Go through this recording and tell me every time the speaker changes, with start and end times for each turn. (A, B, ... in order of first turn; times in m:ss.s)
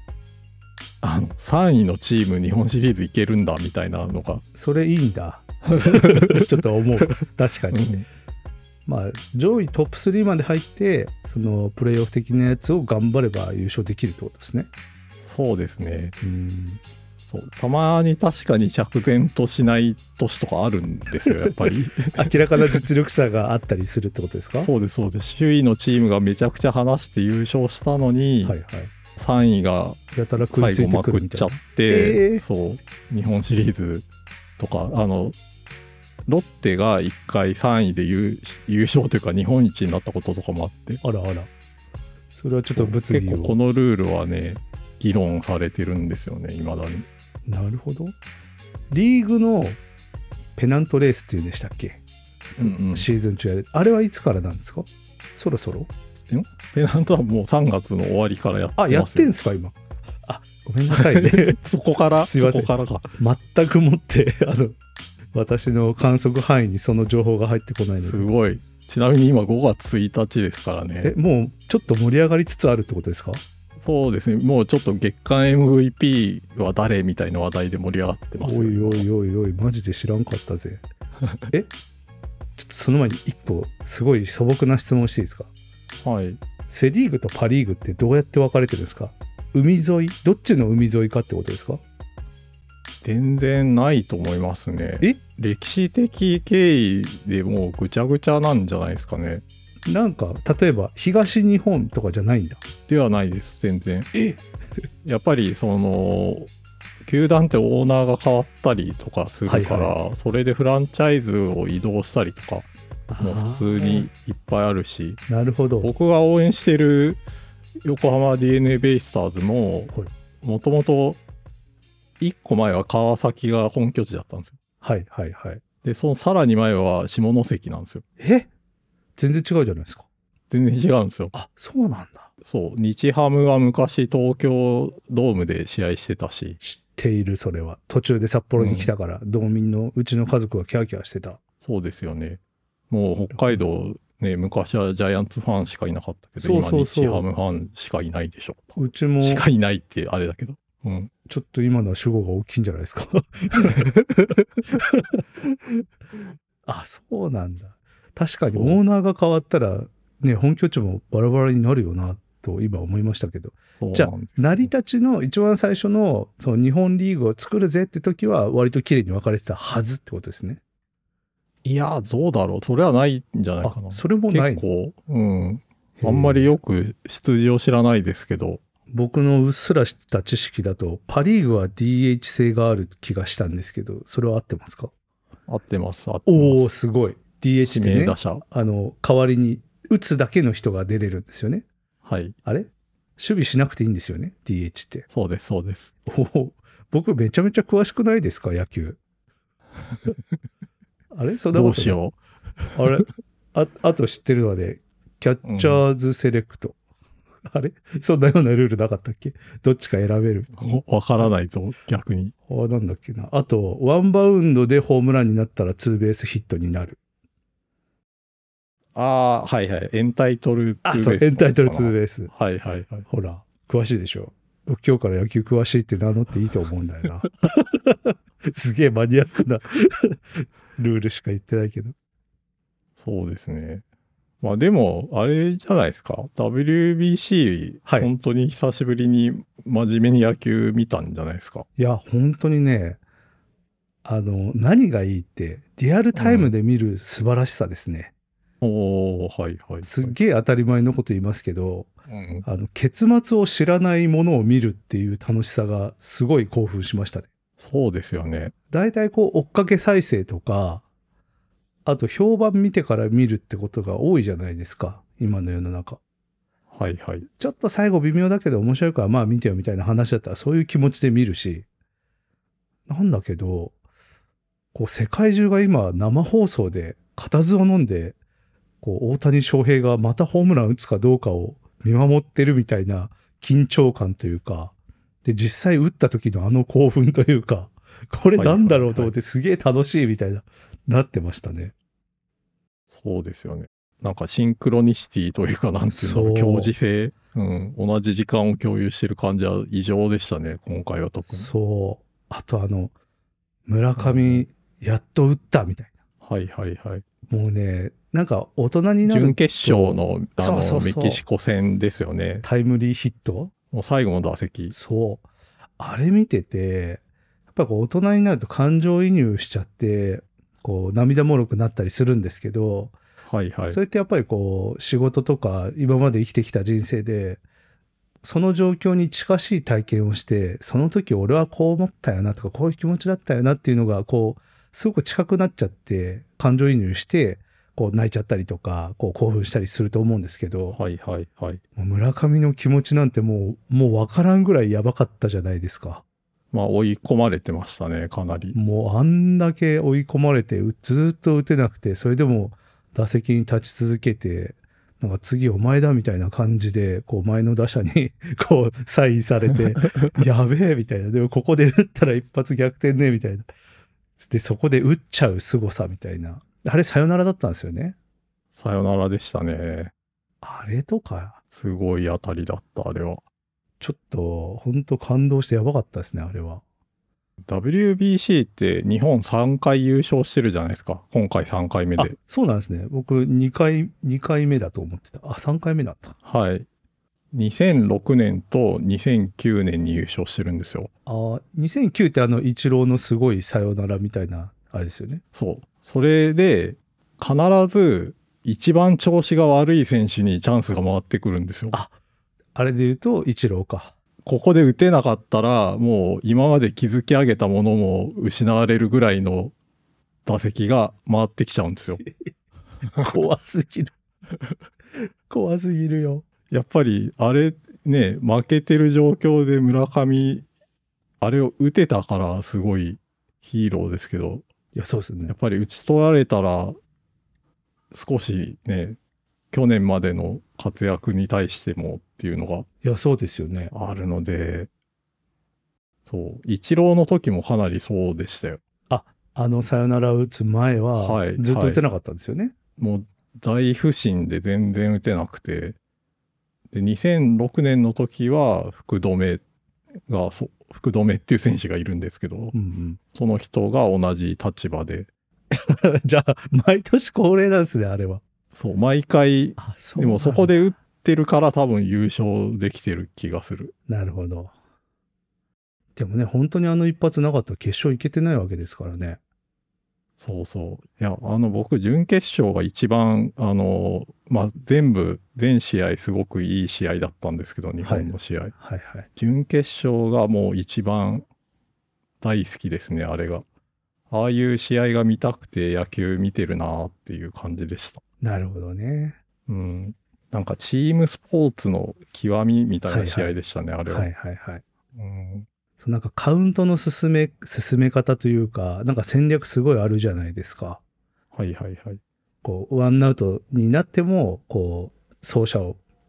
0:01.0-0:04.4 A
0:04.5-0:08.0 B
0:05.8-0:06.6 A
0:07.7-0:08.0 A
0:08.9-0:14.7 B
0:15.2-0:16.2 A
0:16.2-0:16.8 B
0:17.3-0:22.8 A
0:22.1-0:24.7 B
0:24.6-0:28.6 A
0:28.4-0:28.9 B
0:29.2-0:34.1 A
0:30.1-0:32.4 B
0:34.6-0:35.4 A
0:36.3-0:41.0 A
0:41.0-0:41.5 B
0:42.3-0:43.6 B
0:42.8-0:47.1 A
0:47.5-0:48.2 B
0:48.9-0:49.8 B
0:50.6-0:55.9 B
0:52.6-0:53.1 A
0:56.3-0:59.3 A
0:58.8-1:04.8 B
1:00.9-1:03.1 A
1:05.3-1:08.3 B
1:08.0-1:11.1 A
1:11.0-1:13.4 B
1:13.8-1:19.1 A
1:18.4-1:20.8 B
1:22.6-1:25.5 B
1:26.0-1:26.4 A
1:26.7-1:31.8 B
1:33.0-1:39.4 A
1:39.9-1:42.6 B
1:42.9-1:44.1 A
1:44.1-1:44.4 B
1:45.0-1:46.5 A
1:47.0-1:55.2 A
1:49.5-1:49.9 B
1:53.1-1:54.1 B
1:55.3-1:55.9 B
1:55.8-1:57.2 A
1:57.8-2:01.2 A
2:02.2-2:04.6 A
2:04.8-2:05.6 B
2:05.8-2:08.0 A
2:08.2-2:08.5 B
2:09.2-2:10.1 B
2:10.5-2:11.3 A
2:11.3-2:12.3 B
2:12.4-2:16.6 A
2:16.6-2:21.4 B
2:18.6-2:18.9 A
2:21.6-2:31.1 A
2:23.3-2:23.6 B
2:26.4-2:27.2 B
2:28.8-2:29.4 B
2:31.3-2:35.8 B
2:36.7-2:50.6 B
2:38.4-2:38.8 A
2:43.8-2:44.7 A
2:51.6-2:58.6 A
2:53.6-2:54.6 B
2:56.0-2:56.5 B
2:58.9-3:04.9 B
3:05.5-3:06.7 A
3:06.3-3:11.7 B
3:07.6-3:08.4 A
3:12.0-3:12.4 A
3:12.4-3:15.1 B
3:15.1-3:15.9 A
3:16.1-3:19.0 B
3:21.1-3:22.0 B
3:21.5-3:22.7 A
3:22.8-3:26.8 B
3:25.4-3:25.8 A
3:27.5-3:30.8 B
3:30.6-3:32.3 A
3:32.5-3:37.0 B
3:38.9-3:43.1 A
3:40.8-3:42.3 B
3:43.1-3:51.9 B
3:53.0-3:53.8 A
3:54.4-4:01.7 A
4:01.8-4:03.0 B
4:04.0-4:08.1 B
4:06.2-4:06.5 A
4:08.6-4:10.1 A
4:09.8-4:11.9 B
4:12.1-4:12.4 A
4:12.4-4:17.3 B
4:17.6-4:18.5 A
4:18.7-4:20.8 B
4:21.9-4:26.0 B
4:26.7-4:27.2 A
4:27.4-4:31.7 B
4:32.9-4:33.7 B
4:34.7-4:38.2 B
4:38.8-4:51.7 B
4:48.4-4:49.1 A
4:52.9-5:01.5 A
4:55.9-4:56.7 B
5:01.3-5:02.9 B
5:03.7-5:05.9 B
5:04.0-5:04.4 A
5:06.2-5:07.0 A
5:07.3-5:11.2 B
5:09.1-5:12.4 A
5:12.4-5:13.5 B
5:13.7-5:14.8 A
5:14.7-5:15.2 B
5:15.8-5:17.0 B
5:17.5-5:22.9 B
5:23.2-5:23.8 A
5:23.6-5:27.4 B
5:28.2-5:40.8 B
5:40.7-5:41.6 A
5:41.8-5:46.0 B
5:46.5-5:48.6 A
5:48.5-6:03.5 B
6:04.2-6:08.0 B
6:08.5-6:09.9 A
6:10.4-6:11.4 B
6:11.5-6:13.2 A
6:13.8-6:16.6 B
6:17.5-6:22.2 A
6:22.0-6:26.1 B
6:26.2-6:26.6 A
6:27.3-6:30.9 A
6:31.1-6:35.2 B
6:35.3-6:41.8 A
6:42.5-6:44.0 B
6:44.2-6:49.5 A
6:50.2-6:52.0 A
6:53.0-6:53.9 B
6:55.3-6:56.2 B
6:56.5-7:00.5 A
7:01.2-7:04.5 A
7:04.8-7:05.3 B
7:05.3-7:06.8 A
7:07.9-7:09.0 A
7:09.5-7:12.7 A
7:12.8-7:13.7 B
7:13.7-7:14.7 A
7:16.1-7:18.6 A
7:18.9-7:22.5 B
7:21.0-7:21.8 A
7:22.8-7:25.8 A
7:26.7-7:29.4 A
7:30.1-7:32.5 A
7:32.5-7:33.0 B
7:33.1-7:35.1 A
7:35.5-7:38.2 B
7:38.5-7:43.7 A
7:39.6-7:40.5 B
7:43.9-7:44.5 B
7:46.0-7:49.2 B
7:50.2-7:58.5 A
7:57.8-7:59.1 B
7:59.2-8:01.2 A
8:02.2-8:03.4 A
8:04.1-8:08.0 A
8:08.2-8:09.2 B
8:09.5-8:14.1 A
8:12.9-8:13.4 B
8:13.9-8:14.6 B
8:14.9-8:15.5 A
8:15.8-8:20.8 B
8:21.3-8:22.0 A
8:22.4-8:25.8 B